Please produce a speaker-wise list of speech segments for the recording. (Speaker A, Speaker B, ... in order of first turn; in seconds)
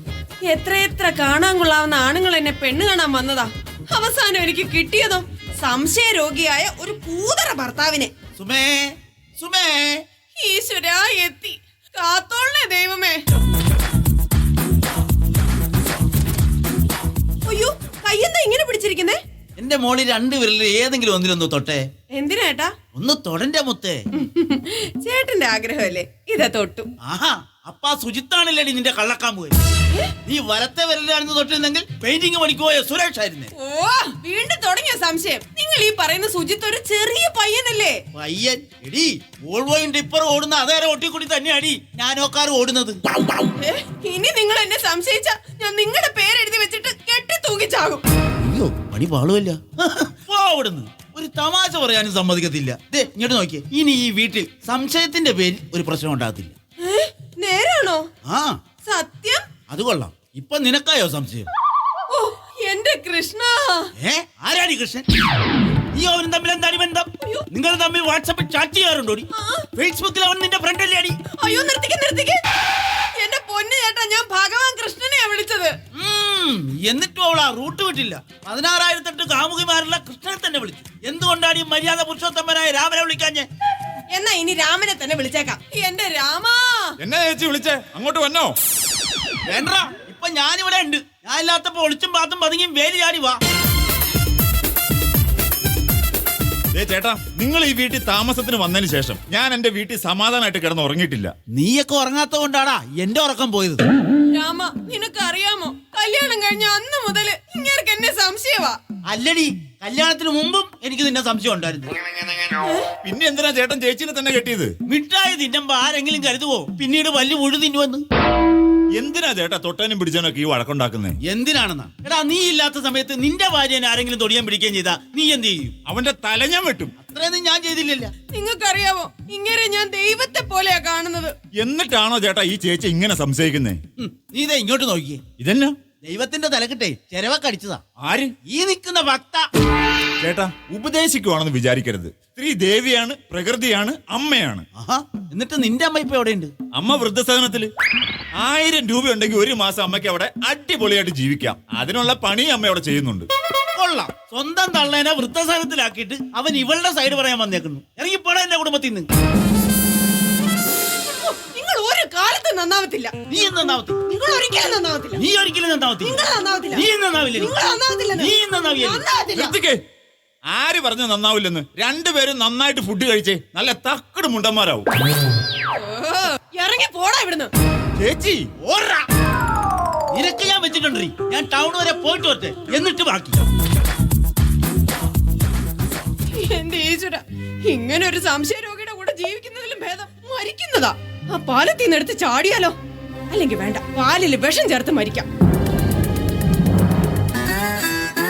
Speaker A: 0.5-8.1, 10.3-13.2, 17.4-19.2, 22.1-22.7, 24.1-26.9, 33.6-38.0, 43.6-48.0, 56.8-58.1, 58.8-59.4, 62.1-63.9, 67.2-67.5, 69.3-69.7, 71.3-72.4, 73.2-75.7, 84.1-87.0, 104.3-108.8, 112.6-112.9, 128.3-131.3, 161.0-163.1, 164.1-165.2, 166.0-169.5, 175.7-177.5, 186.3-192.8, 193.3-195.2
Speaker B: 8.4-10.0, 19.6-21.8, 22.9-24.0, 27.0-29.6, 30.2-33.5, 38.1-43.0, 48.4-56.5, 58.2-58.6, 59.7-61.5, 64.0-65.0, 65.9-71.2, 75.9-83.5, 89.5-93.4, 101.5-103.8, 109.1-111.9, 114.8-118.0, 121.2-125.7, 127.0-128.1, 134.0-135.2, 136.0-139.4, 144.8-146.5, 153.7-159.1, 163.3-164.0, 165.2-169.5, 178.6-179.1, 180.1-183.4
Speaker C: 87.0-88.5, 96.7-101.3, 113.0-114.7, 118.9-121.2, 125.8-126.9, 131.5-133.8, 135.4-135.8, 138.0-138.3, 140.2-144.7, 146.7-147.7, 148.4-153.3, 169.3-169.8, 170.5-174.9, 178.0-178.5